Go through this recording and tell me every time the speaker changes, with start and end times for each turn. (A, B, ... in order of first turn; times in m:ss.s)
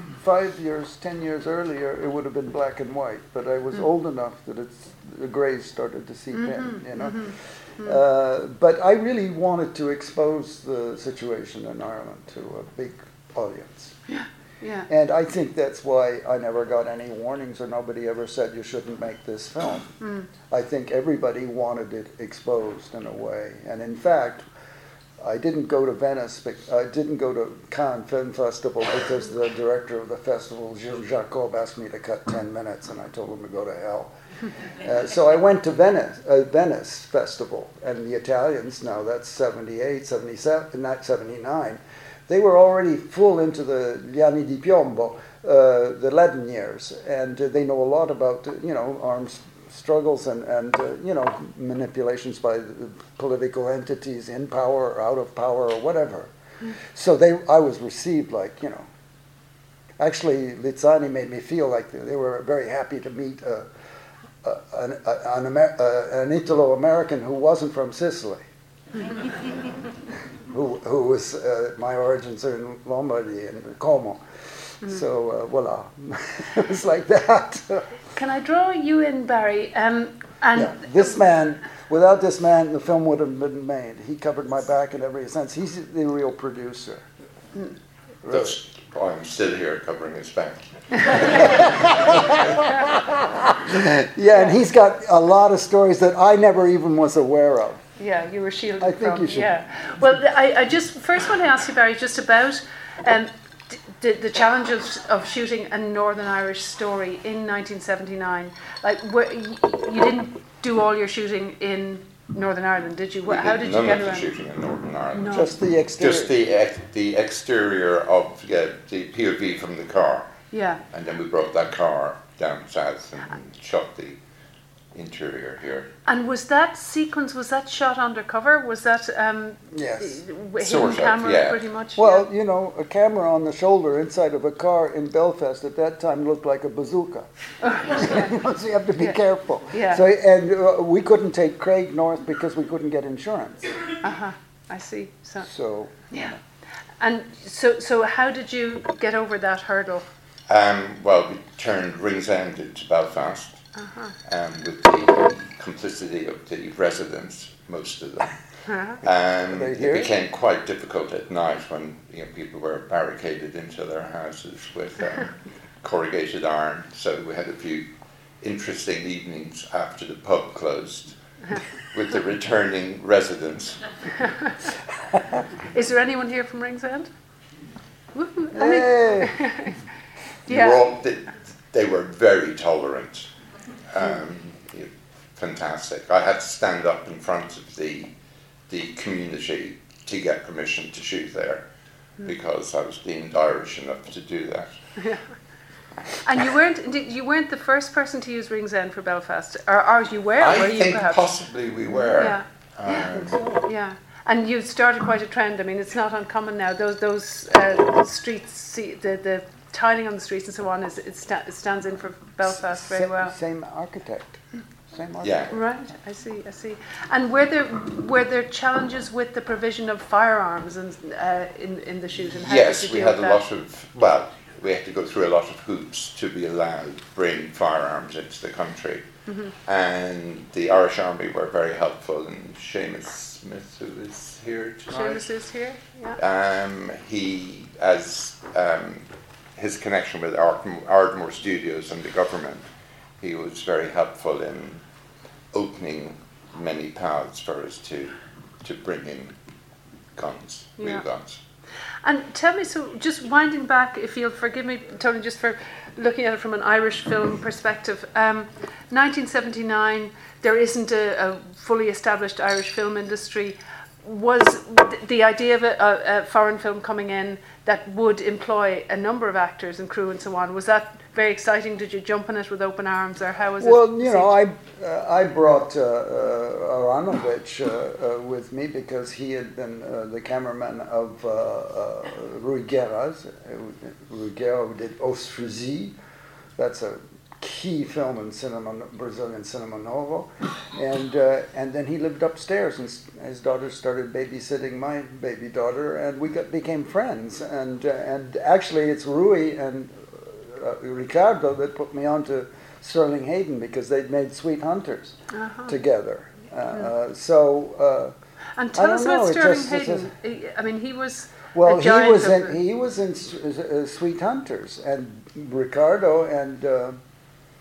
0:00.1-0:14.0 A
0:06.3-0:08.0 B
0:14.1-0:14.9 B
0:14.9-0:20.0 A
0:20.0-0:20.3 B
0:20.5-0:24.5 A
0:25.2-0:58.9 A
1:00.0-1:03.7 A
1:04.4-1:08.4 A
1:10.5-1:17.9 A
1:18.1-1:21.2 B
1:20.5-1:27.1 A
1:28.2-1:28.6 A
1:28.3-1:32.1 C
1:31.4-1:37.8 A
1:32.5-1:32.9 B
1:38.0-1:54.3 B
1:38.8-1:39.6 A
1:53.3-2:00.3 C
1:55.1-1:55.5 B
1:55.3-1:56.3 A
2:00.5-2:00.8 B
2:00.9-2:04.2 C
2:04.9-2:05.9 C
2:06.0-2:12.2 B
2:09.7-2:10.2 A
2:10.6-2:11.6 C
2:12.0-2:23.7 A
2:17.6-2:18.3 B
2:19.7-2:20.0 B
2:24.0-2:25.5 B
2:25.4-2:26.4 A
2:27.0-2:30.1 B
2:30.5-2:33.7 C
2:33.8-2:34.1 B
2:34.2-2:38.4 C
2:38.7-2:39.0 B
2:38.9-2:47.8 C
2:39.5-2:40.1 A
2:48.4-2:54.2 C
2:55.1-2:55.4 A
2:55.7-2:57.1 B
2:58.1-2:59.8 B
2:58.5-2:59.7 A
3:00.4-3:03.3 C
3:00.5-3:00.8 B
3:03.8-3:08.1 C
3:08.7-3:11.6 C
3:12.2-3:14.8 C
3:16.2-3:21.3 B
3:20.4-3:23.4 C
3:22.2-3:22.4 B
3:23.1-3:23.6 A
3:23.6-3:33.4 B
3:32.4-3:35.7 A
3:35.2-3:35.5 C
3:35.5-3:43.4 B
3:42.4-3:55.3 C
3:54.9-3:56.2 B
3:56.2-4:02.6 C
4:03.2-4:04.8 C
4:05.5-4:09.3 C
4:10.1-4:11.4 C
4:10.8-4:11.0 B
4:12.0-4:34.4 B
4:33.6-4:45.9 A
4:46.6-5:08.1 A
5:05.3-5:05.7 B
5:08.6-5:12.6 B
5:08.7-5:10.1 A
5:11.5-5:17.0 A